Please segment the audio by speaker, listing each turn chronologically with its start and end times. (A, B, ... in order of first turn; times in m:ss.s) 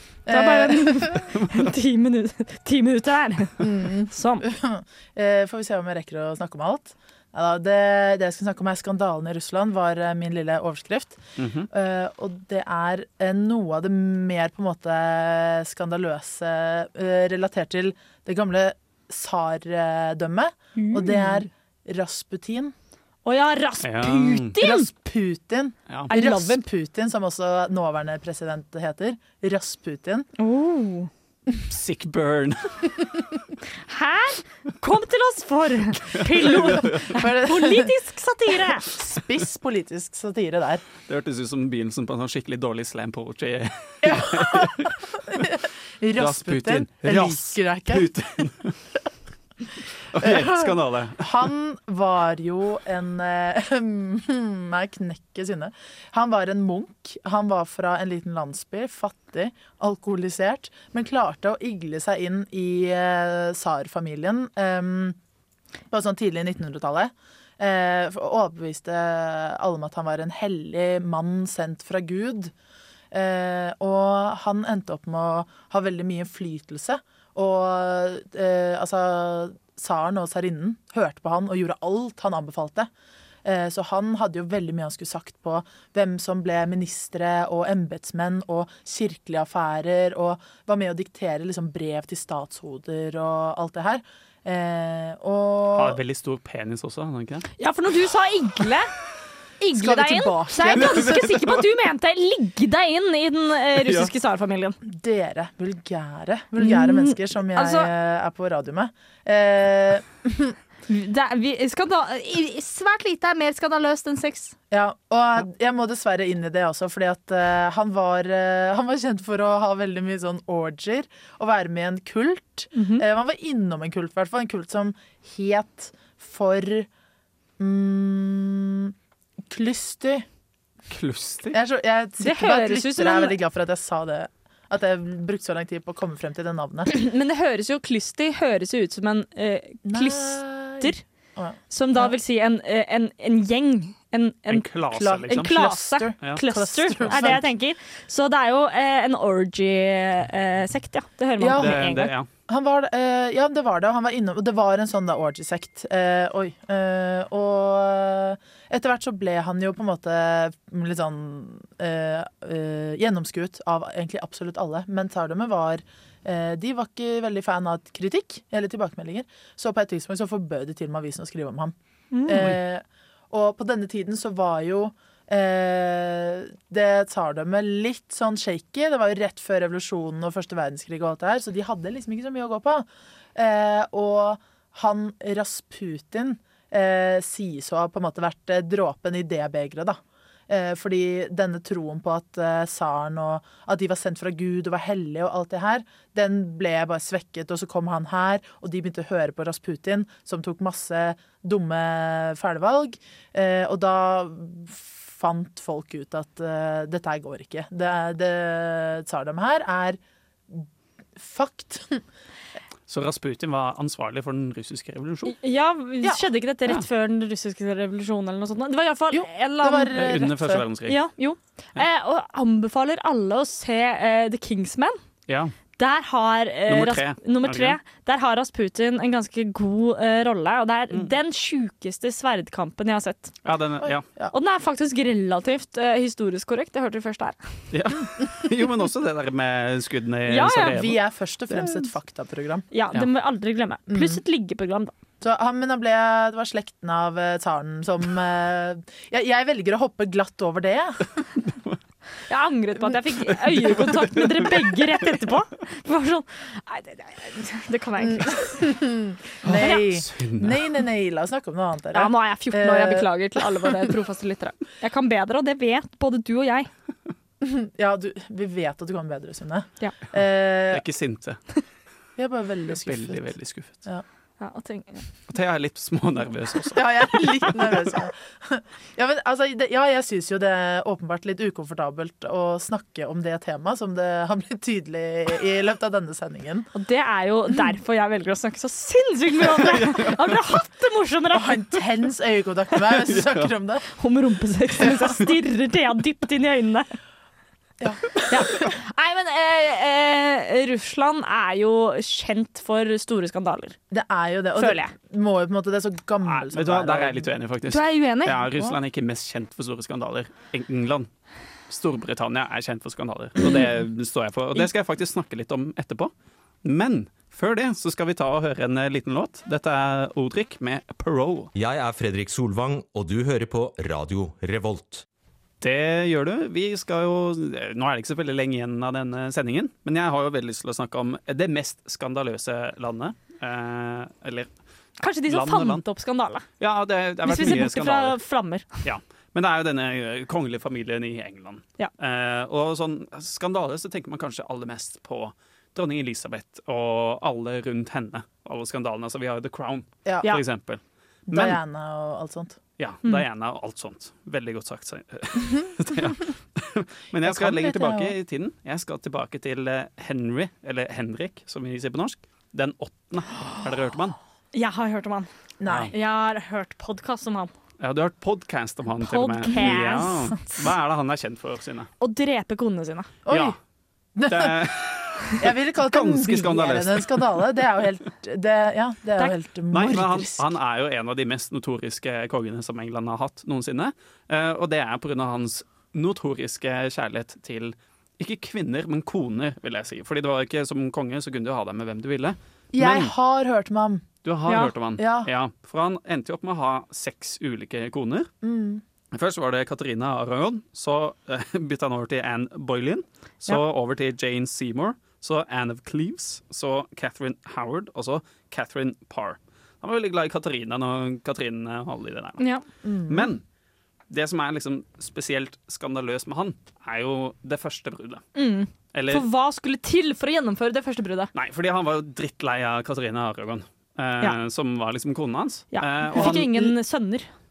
0:00.3-0:01.3 A
0:00.3-0:04.5 B
0:03.6-0:22.7 A
0:11.4-0:11.7 C
0:20.8-0:21.5 B
0:23.2-0:24.9 B
0:23.8-0:24.6 C
0:24.6-0:30.3 A
0:26.1-0:26.6 B
0:30.4-0:31.1 B
0:31.6-0:33.0 C
0:33.9-0:38.9 B
0:36.2-0:37.2 C
0:37.0-0:37.9 A
0:38.8-0:40.8 A
0:41.1-0:45.0 C
0:44.0-0:48.1 A
0:46.2-0:48.8 C
0:50.1-0:51.5 C
0:50.2-1:05.2 A
1:05.9-1:12.5 A
1:13.1-1:22.9 A
1:23.4-1:36.0 A
1:35.7-1:37.5 C
1:37.6-1:38.9 B
1:39.6-1:44.8 B
1:39.7-1:41.3 A
1:40.7-1:41.6 C
1:43.8-1:44.1 C
1:44.8-1:50.6 A
1:46.6-1:47.9 B
1:50.9-1:54.6 B
1:54.7-2:06.9 A
2:02.7-2:03.0 B
2:07.6-2:09.0 A
2:09.5-2:10.3 A
2:10.9-2:11.6 C
2:11.5-2:16.9 A
2:12.2-2:13.4 B
2:16.9-2:21.0 B
2:19.8-2:22.2 A
2:21.7-2:24.7 B
2:24.5-2:25.5 C
2:24.9-2:27.4 A
2:25.3-2:32.1 B
2:26.2-2:27.4 C
2:31.4-2:51.8 A
2:31.6-2:32.3 C
2:52.1-2:52.5 B
2:52.3-3:32.0 A
3:32.9-3:35.4 C
3:35.3-3:40.3 B
3:39.1-3:40.6 A
3:39.9-3:41.0 C
3:40.9-3:45.0 B
3:45.3-3:45.5 C
3:45.8-3:53.4 B
3:46.7-3:47.8 C
3:53.4-3:54.0 C
3:53.8-3:54.3 A
3:54.3-3:57.4 B
3:57.7-4:01.0 C
4:00.3-4:00.8 B
4:00.7-4:02.7 A
4:02.7-4:04.9 B
4:03.9-4:04.2 A
4:05.2-4:11.1 A
4:11.5-4:11.8 C
4:12.3-4:18.6 B
4:13.5-4:14.7 C
4:18.0-4:23.4 A
4:19.4-4:20.7 C
4:19.5-4:19.8 B
4:21.9-4:26.7 B
4:27.4-4:30.8 A
4:30.7-4:31.4 C
4:32.2-4:33.3 A
4:32.8-4:33.8 C
4:34.4-4:35.0 B
4:35.3-4:37.8 C
4:36.7-4:46.7 A
4:46.7-4:51.8 B
4:49.6-4:50.4 C
4:51.3-4:53.9 A
4:53.1-4:53.5 C
4:54.0-4:56.9 B
4:54.8-4:55.1 A
4:57.8-4:58.7 A
4:58.3-5:03.8 B
5:03.9-5:07.3 A
5:04.6-5:04.9 B
5:06.2-5:11.1 C
5:07.7-5:08.4 B
5:11.7-5:16.1 C
5:16.6-5:21.5 C
5:21.6-5:25.0 D
5:25.6-5:34.5 C
5:35.0-5:36.5 B
5:35.3-5:35.8 C
5:36.6-5:38.2 C
5:37.2-5:38.8 B
5:38.8-5:51.6 C
5:50.1-5:50.3 A
5:51.3-5:52.6 A
5:52.8-6:04.2 C
5:57.2-5:58.2 A
6:04.5-6:05.3 B
6:05.6-6:05.9 A
6:05.7-6:05.9 C
6:05.9-6:07.5 B
6:07.8-6:11.9 C
6:09.0-6:10.6 B
6:12.0-6:13.1 B
6:13.3-6:13.6 A
6:13.3-6:13.6 C
6:14.2-6:14.6 A
6:14.3-6:17.5 C
6:15.4-6:20.5 A
6:19.7-6:33.1 C
6:32.7-6:34.1 A
6:34.2-6:38.3 C
6:34.5-6:34.7 B
6:35.0-6:35.3 A
6:38.4-6:38.8 A
6:39.1-6:52.4 C
6:52.4-6:52.6 B
6:52.8-6:53.3 A
6:53.1-6:53.4 C
6:54.1-6:58.2 C
6:58.4-7:01.3 B
6:58.9-6:59.3 C
7:01.4-7:06.6 C
7:05.7-7:07.3 B
7:06.1-7:06.7 A